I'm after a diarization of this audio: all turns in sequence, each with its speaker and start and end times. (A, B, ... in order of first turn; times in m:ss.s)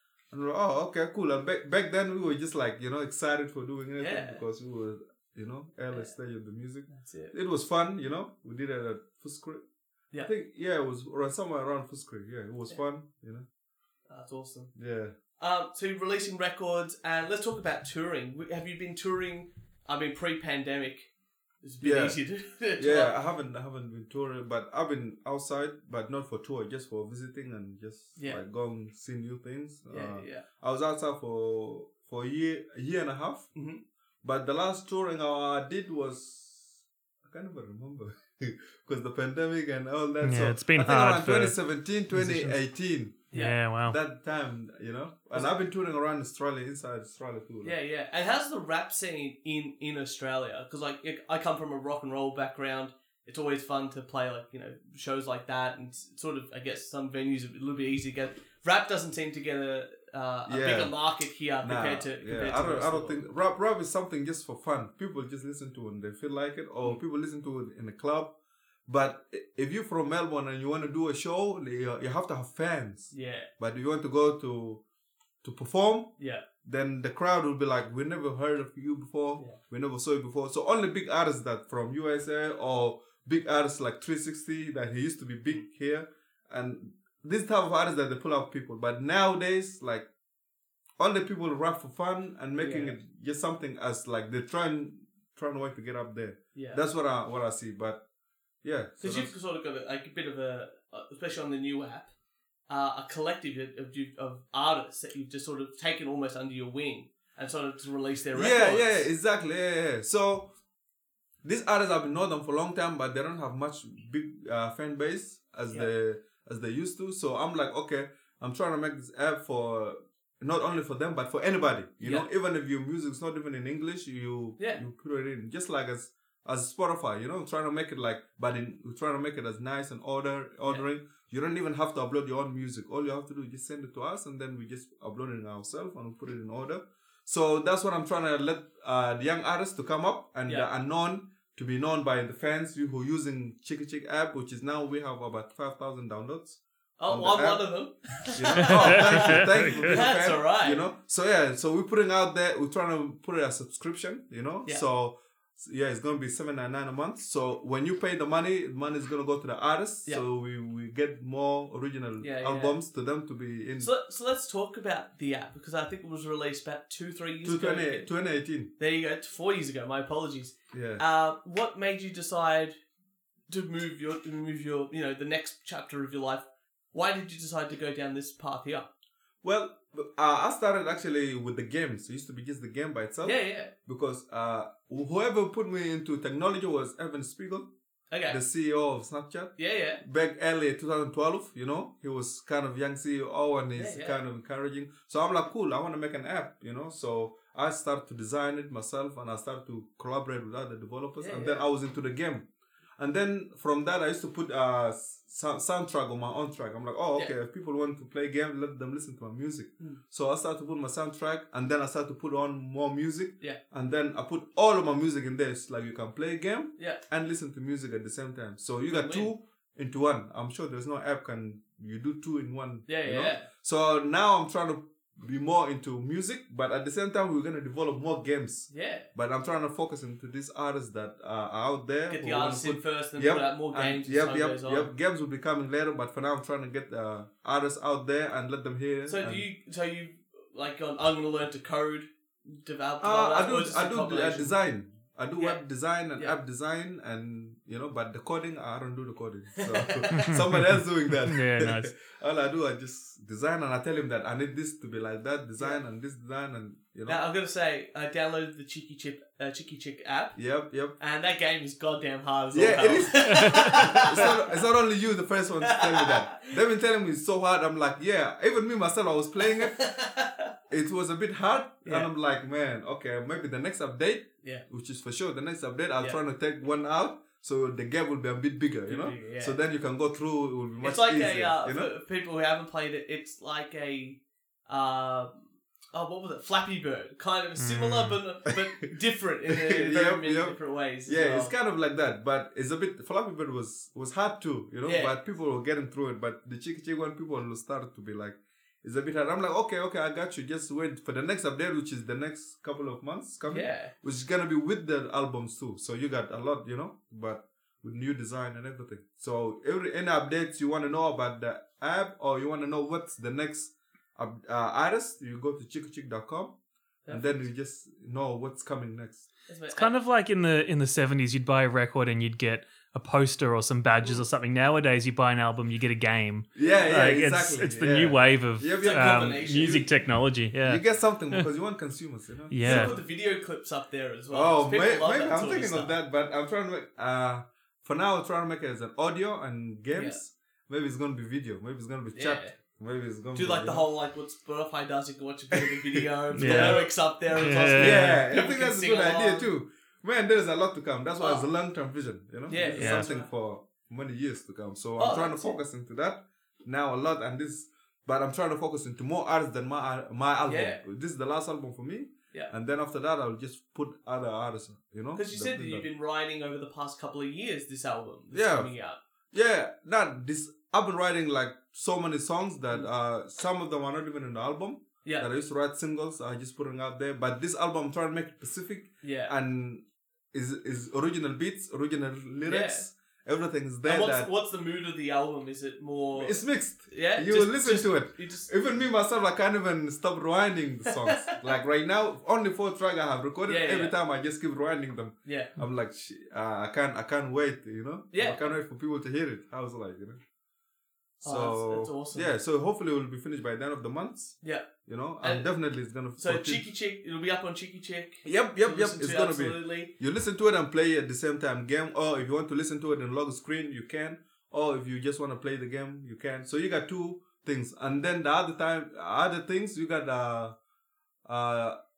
0:00.3-0:09.6 A
0:04.0-0:04.4 B
0:06.9-0:07.3 B
0:10.2-0:13.5 A
0:14.1-0:14.7 B
0:14.8-0:15.1 A
0:15.4-0:21.1 B
0:21.6-0:23.2 B
0:21.8-0:22.2 A
0:22.8-0:33.5 A
0:28.2-0:28.4 B
0:29.9-0:30.4 B
0:33.6-0:33.8 B
0:34.2-0:43.3 A
0:40.2-0:41.6 C
0:42.1-0:42.6 C
0:43.3-0:44.0 C
0:43.9-0:47.8 A
0:47.6-1:03.2 B
1:00.5-1:01.0 A
1:01.6-1:08.4 A
1:08.9-1:14.8 A
1:13.1-1:13.5 B
1:15.4-1:30.1 A
1:16.2-1:16.4 B
1:31.0-1:38.0 A
1:32.6-1:33.0 B
1:36.6-1:36.8 B
1:38.6-1:39.3 A
1:39.0-1:42.1 B
1:42.7-1:49.1 B
1:48.4-1:50.5 A
1:51.4-2:27.7 A
2:02.0-2:02.3 B
2:04.6-2:04.8 B
2:27.0-2:30.8 B
2:28.3-2:43.9 A
2:28.6-2:30.0 C
2:42.2-2:42.8 B
2:43.8-2:48.1 B
2:47.4-2:48.7 A
2:48.8-2:52.8 B
2:50.7-2:51.0 A
2:53.5-2:58.9 B
2:59.4-3:07.7 A
3:03.2-3:03.7 B
3:08.1-3:08.4 B
3:08.3-3:22.5 A
3:09.6-3:10.0 B
3:13.8-3:14.2 B
3:21.2-3:21.7 B
3:23.0-3:59.4 A
3:38.9-3:39.3 B
3:42.9-3:43.5 B
3:48.7-3:49.1 B
3:52.1-3:54.9 B
3:59.1-4:04.6 B
4:03.0-4:17.2 A
4:09.6-4:10.4 B
4:10.2-4:11.9 C
4:17.1-4:20.4 B
4:20.4-4:21.0 A
4:21.0-4:24.6 B
4:22.5-4:29.8 A
4:25.6-4:26.5 B
4:29.6-4:30.5 B
4:30.7-4:41.9 A
4:31.8-4:32.1 B
4:38.9-4:39.6 B
4:40.8-4:51.5 B
4:47.6-4:48.2 C
4:49.5-5:16.6 A
4:54.8-4:55.2 B
5:03.5-5:03.9 B
5:17.0-5:17.5 B
5:17.1-5:19.3 A
5:19.5-5:19.9 B
5:19.7-5:31.5 C
5:26.6-5:29.9 A
5:26.6-5:27.9 B
5:28.8-5:29.9 B
5:30.6-5:33.0 A
5:32.5-5:33.0 C
5:32.6-5:36.0 B
5:34.3-5:43.8 A
5:39.9-5:40.2 B
5:42.1-5:42.6 B
5:43.3-5:49.5 B
5:45.5-5:46.9 A
5:46.4-5:48.2 C
5:47.8-6:05.9 A
5:52.5-5:53.3 B
5:52.8-5:53.1 C
5:55.0-5:55.6 B
6:00.5-6:00.8 B
6:05.2-6:09.0 B
6:08.3-6:08.7 A
6:09.3-6:24.3 A
6:19.0-6:19.3 B
6:22.5-6:22.9 B
6:23.8-6:28.5 B
6:26.2-6:40.2 A
6:30.9-6:31.4 B
6:33.5-6:34.0 B
6:35.3-6:35.5 B
6:38.1-6:38.5 B
6:41.2-6:42.3 B
6:41.2-6:46.6 A
6:44.4-6:44.7 B
6:45.2-6:45.5 B
6:46.2-6:49.9 B
6:48.2-7:00.6 A
7:01.2-7:01.8 A